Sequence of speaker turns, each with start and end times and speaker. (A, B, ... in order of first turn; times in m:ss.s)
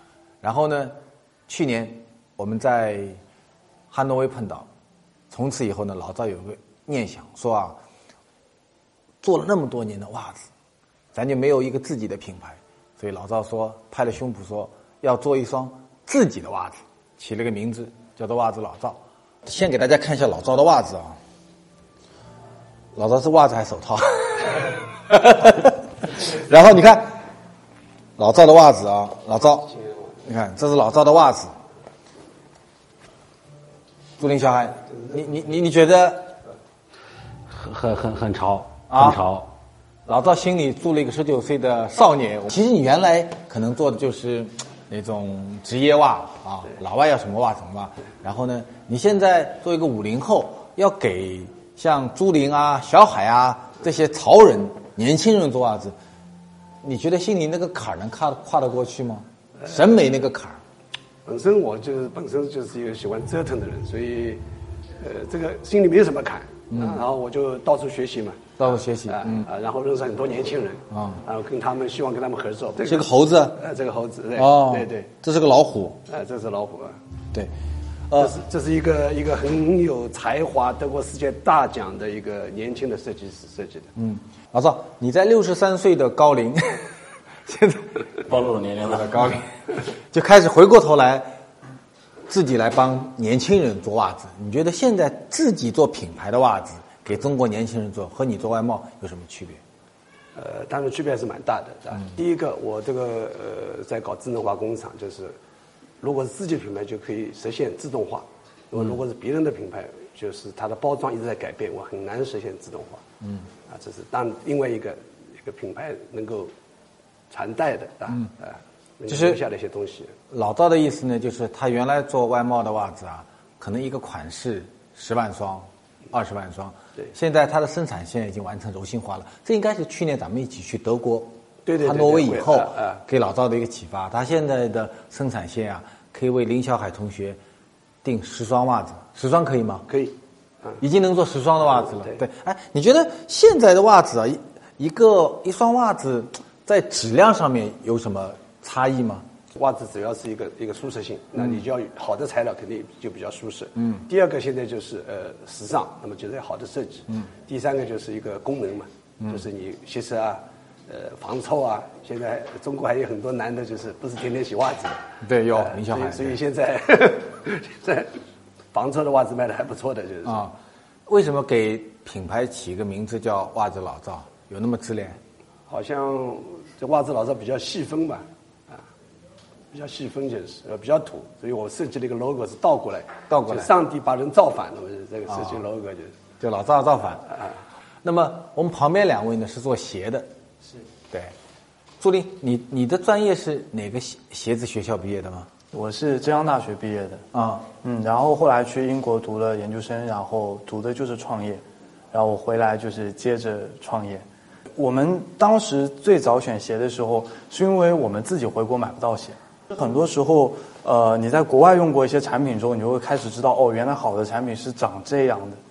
0:00.4-0:01.0 A
0:01.5-0:03.2 A
0:03.9-0:04.7 A
0:05.3-0:07.8 A
0:09.2-0:10.4 A
0:11.1-0:21.2 A
0:23.0-0:27.1 A
0:28.2-0:31.5 A
0:34.2-0:36.3 A
0:37.5-0:39.5 B
0:38.9-0:39.2 A
0:40.1-0:56.0 A
0:56.8-1:00.6 A
1:01.2-1:04.4 C
1:05.0-1:08.6 C
1:06.7-1:07.0 A
1:08.6-1:09.5 A
1:09.1-1:15.1 C
1:10.9-1:11.2 A
1:12.8-1:13.6 A
1:14.4-1:16.0 A
1:16.1-1:17.0 C
1:18.1-1:18.4 A
1:18.2-1:23.9 C
1:24.0-1:29.5 A
1:28.3-1:29.0 B
1:30.1-1:31.3 A
1:32.3-1:39.6 A
1:40.4-1:45.4 C
1:46.0-1:53.0 C
1:53.7-1:56.5 C
1:57.3-2:00.1 C
1:59.1-1:59.4 A
2:00.3-2:17.4 A
2:11.7-2:13.0 C
2:18.0-2:19.9 A
2:19.9-2:20.1 C
2:20.8-2:29.3 A
2:29.5-2:48.2 C
2:45.2-2:46.4 A
2:48.7-2:50.5 C
2:50.2-2:50.5 A
2:51.1-2:55.2 A
2:55.7-2:58.8 C
2:59.7-3:06.2 C
3:03.3-3:03.7 A
3:05.3-3:05.6 A
3:06.4-3:07.3 A
3:08.0-3:10.3 A
3:12.0-3:15.5 A
3:15.7-3:17.2 D
3:17.3-3:17.7 A
3:17.8-3:24.3 D
3:24.8-3:35.6 D